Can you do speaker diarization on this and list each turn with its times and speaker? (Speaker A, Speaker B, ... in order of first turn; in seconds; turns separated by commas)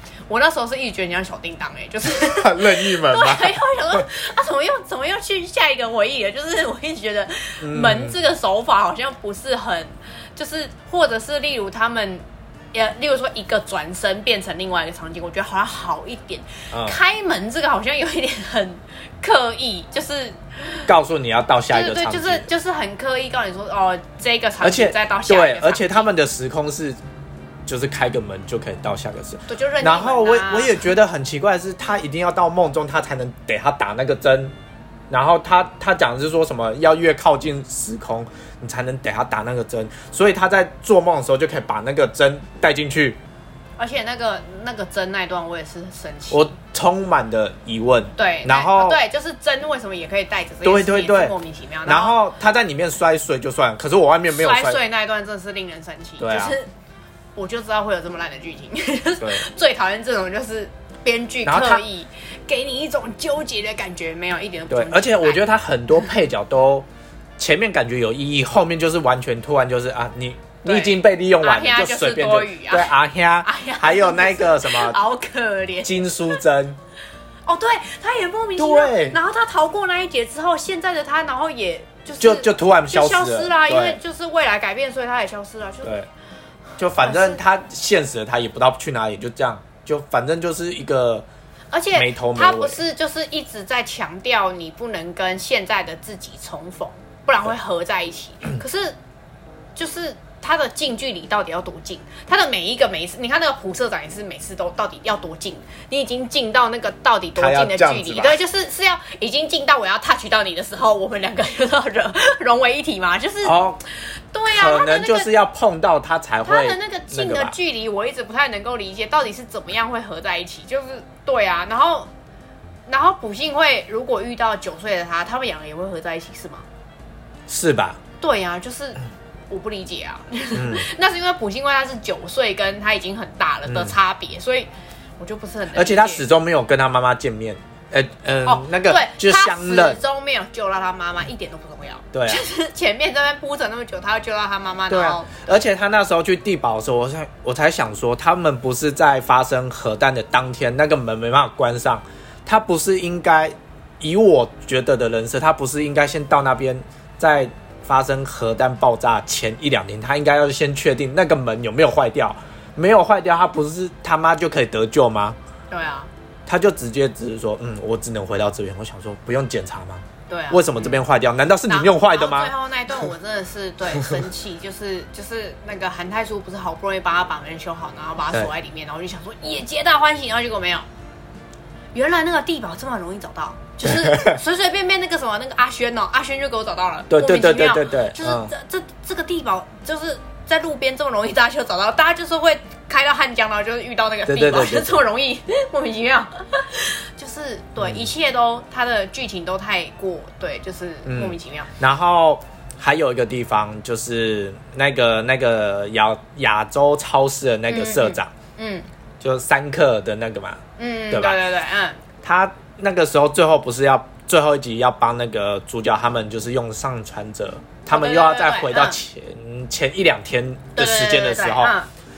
Speaker A: 0.3-20.9, Speaker B: 2.0-4.0, Speaker B: 7.6-8.2, Speaker B: 16.7-17.0, Speaker B: 20.9-22.5, Speaker A: 21.7-26.1, Speaker B: 24.6-27.0, Speaker B: 27.6-34.5, Speaker A: 29.5-30.8, Speaker B: 35.1-43.2, Speaker A: 43.8-46.5, Speaker B: 46.3-49.0, Speaker A: 48.1-52.2, Speaker B: 50.6-51.3, Speaker B: 51.9-54.8, Speaker A: 54.3-56.7, Speaker B: 56.2-56.6, Speaker A: 57.4-65.4, Speaker B: 59.2-59.4, Speaker B: 61.4-61.8, Speaker B: 64.7-66.9, Speaker B: 67.4-75.0, Speaker A: 70.6-76.4, Speaker B: 75.8-76.8, Speaker A: 77.5-85.9, Speaker B: 78.6-79.2, Speaker B: 82.2-84.0, Speaker B: 86.8-91.2, Speaker A: 87.0-87.4, Speaker A: 91.7-99.0, Speaker B: 91.9-92.8, Speaker A: 99.8-113.6, Speaker B: 107.3-108.4, Speaker B: 113.4-113.8, Speaker A: 114.3-115.3, Speaker B: 114.5-117.5, Speaker A: 116.4-122.1, Speaker A: 122.9-126.7, Speaker B: 127.5-128.0, Speaker A: 128.2-134.7, Speaker B: 130.5-130.8, Speaker B: 133.7-133.9, Speaker A: 135.2-136.2, Speaker B: 135.7-140.0, Speaker A: 138.4-145.6, Speaker B: 142.1-142.4, Speaker B: 144.9-165.4, Speaker A: 165.7-166.1, Speaker B: 166.4-172.5, Speaker A: 170.3-171.0, Speaker A: 171.7-180.8, Speaker A: 181.9-201.7, Speaker B: 183.9-184.3, Speaker B: 187.1-188.5, Speaker B: 194.3-195.0, Speaker B: 197.8-198.1, Speaker B: 201.1-208.3, Speaker A: 207.7-208.9, Speaker B: 209.2-211.4, Speaker A: 210.8-212.0, Speaker B: 212.2-221.7, Speaker A: 217.9-219.0, Speaker A: 220.8-221.9